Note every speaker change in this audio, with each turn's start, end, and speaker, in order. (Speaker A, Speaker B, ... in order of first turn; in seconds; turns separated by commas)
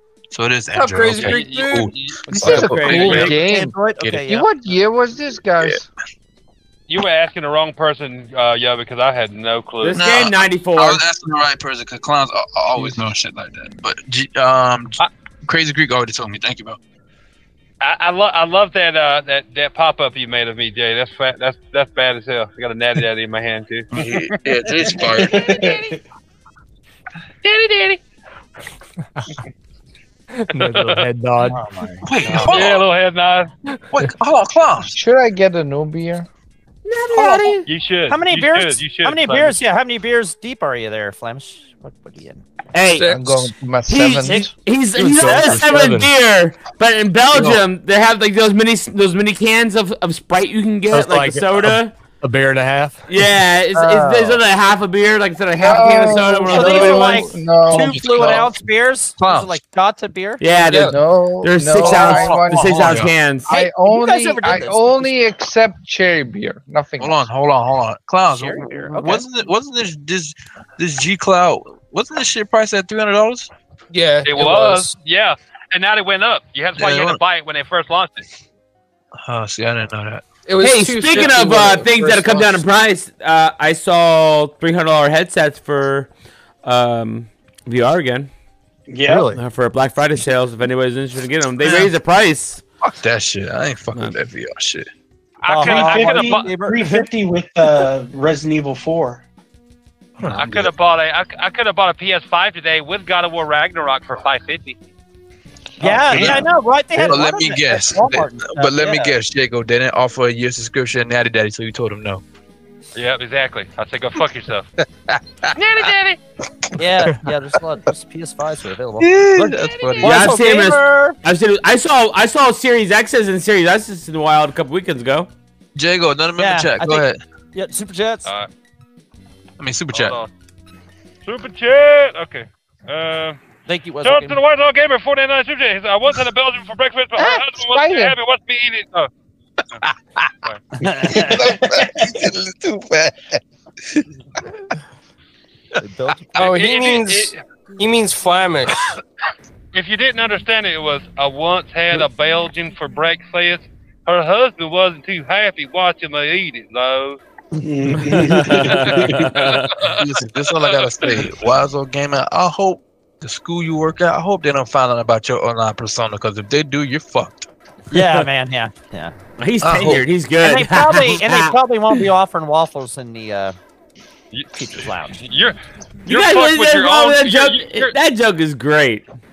Speaker A: 0.3-3.5, Speaker B: 0.7-1.9, Speaker C: 1.1-2.2, Speaker D: 2.3-3.7, Speaker E: 2.4-4.5, Speaker C: 2.8-3.4, Speaker A: 4.0-4.3, Speaker D: 4.2-5.9, Speaker C: 6.9-10.0, Speaker F: 9.8-11.0, Speaker A: 10.0-16.8, Speaker C: 17.8-24.1, Speaker A: 23.9-25.5, Speaker G: 25.0-26.0, Speaker C: 25.4-25.8, Speaker C: 27.4-28.0, Speaker H: 30.5-31.9, Speaker C: 30.6-31.1, Speaker A: 32.0-32.9, Speaker C: 32.2-33.5, Speaker A: 33.9-35.0, Speaker D: 34.8-36.3, Speaker F: 36.9-37.5, Speaker A: 37.1-37.6, Speaker E: 37.1-42.4, Speaker C: 37.6-39.6, Speaker F: 42.7-51.9, Speaker D: 43.0-44.5, Speaker E: 44.2-44.5, Speaker H: 45.0-46.1, Speaker E: 45.2-45.7, Speaker A: 47.3-47.6, Speaker H: 50.9-53.2, Speaker F: 53.1-57.2, Speaker D: 53.7-54.4, Speaker D: 55.6-58.4, Speaker E: 56.5-60.4, Speaker A: 57.7-58.6, Speaker A: 59.2-59.6, Speaker F: 60.4-63.5, Speaker B: 60.6-60.9, Speaker D: 60.9-62.9, Speaker A: 61.8-63.1, Speaker H: 62.9-63.1, Speaker D: 63.5-67.3, Speaker E: 63.5-65.2, Speaker A: 67.0-73.5, Speaker E: 68.3-69.3, Speaker B: 73.9-74.9, Speaker C: 74.3-78.3, Speaker A: 76.8-77.2, Speaker A: 79.2-80.3, Speaker B: 80.5-82.7, Speaker F: 80.6-86.1, Speaker F: 86.6-88.3, Speaker G: 88.9-89.3, Speaker H: 89.1-89.4, Speaker F: 89.3-92.6, Speaker A: 91.6-91.9, Speaker A: 92.8-94.9, Speaker C: 95.4-96.6, Speaker E: 95.5-97.1, Speaker G: 95.6-99.2, Speaker A: 100.2-100.7, Speaker C: 100.3-104.8, Speaker E: 105.8-109.2, Speaker G: 105.8-106.4, Speaker A: 106.0-112.2, Speaker C: 113.0-114.7, Speaker A: 115.1-115.5, Speaker C: 115.5-116.2, Speaker E: 116.8-121.2, Speaker A: 119.0-120.3, Speaker C: 119.5-120.1, Speaker F: 120.0-125.3, Speaker A: 125.8-127.2, Speaker E: 126.4-128.3, Speaker A: 129.6-130.2, Speaker C: 129.9-130.3, Speaker C: 131.2-133.4, Speaker E: 133.7-134.4, Speaker C: 134.0-139.1, Speaker D: 137.2-138.2, Speaker E: 140.8-141.4, Speaker G: 140.8-142.3, Speaker A: 141.1-143.4, Speaker E: 145.8-146.5, Speaker B: 146.4-148.8, Speaker C: 146.4-147.4, Speaker C: 149.7-157.2, Speaker G: 157.6-159.3, Speaker C: 158.9-161.2, Speaker F: 159.2-159.7, Speaker A: 160.0-167.5, Speaker E: 167.9-169.2, Speaker F: 169.4-171.6, Speaker A: 169.6-170.1, Speaker E: 170.4-173.6, Speaker C: 174.3-177.9, Speaker E: 174.5-175.2, Speaker F: 176.1-179.1